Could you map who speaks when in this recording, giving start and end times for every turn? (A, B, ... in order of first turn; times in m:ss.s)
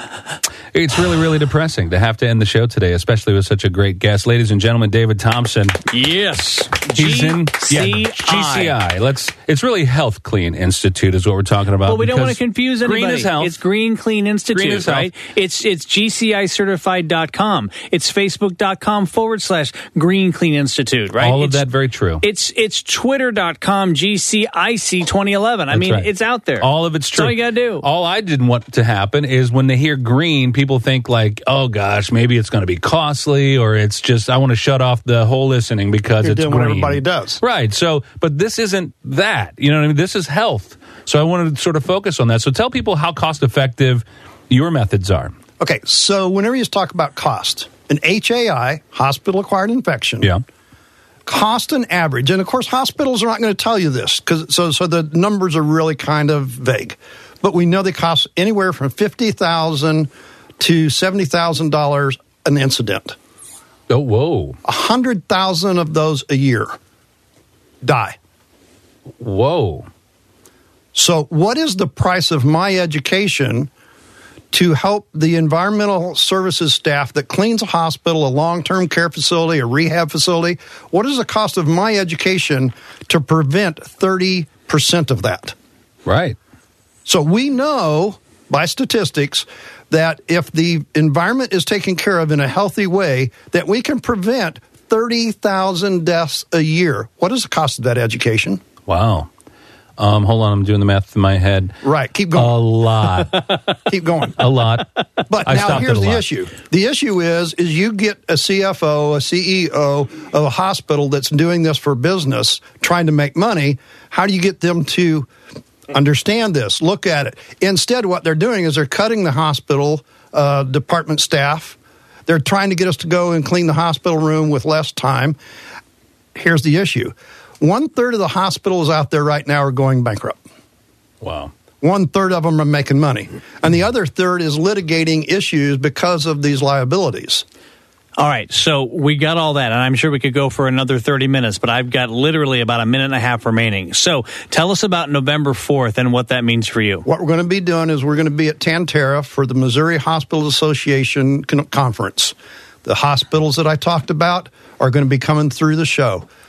0:00.7-0:05.8 A
0:05.9-0:08.8 B
0:07.0-0:13.5 A
0:11.8-0:21.6 B
0:14.5-0:15.1 A
0:21.2-0:22.2 A
0:22.2-0:27.8 B
0:25.7-0:26.1 A
0:26.6-0:45.4 A
0:36.2-0:37.4 C
0:45.6-0:50.3 C
0:51.3-1:03.2 C
1:03.9-1:04.6 A
1:04.6-1:06.8 C
1:07.8-1:08.2 C
1:09.2-1:09.9 A
1:10.9-1:13.7 C
1:14.5-1:25.6 C
1:26.1-1:26.4 A
1:27.0-1:38.6 C
1:38.9-1:39.3 A
1:40.0-1:41.8 A
1:41.8-1:42.6 C
1:42.4-1:43.6 A
1:43.9-1:44.5 C
1:44.4-1:44.9 A
1:45.3-1:55.3 C
1:45.4-1:46.2 A
1:55.9-2:05.4 C
2:06.4-2:10.4 C
2:11.2-2:11.5 A
2:11.8-2:17.4 C
2:18.2-2:27.0 B
2:27.0-2:36.3 C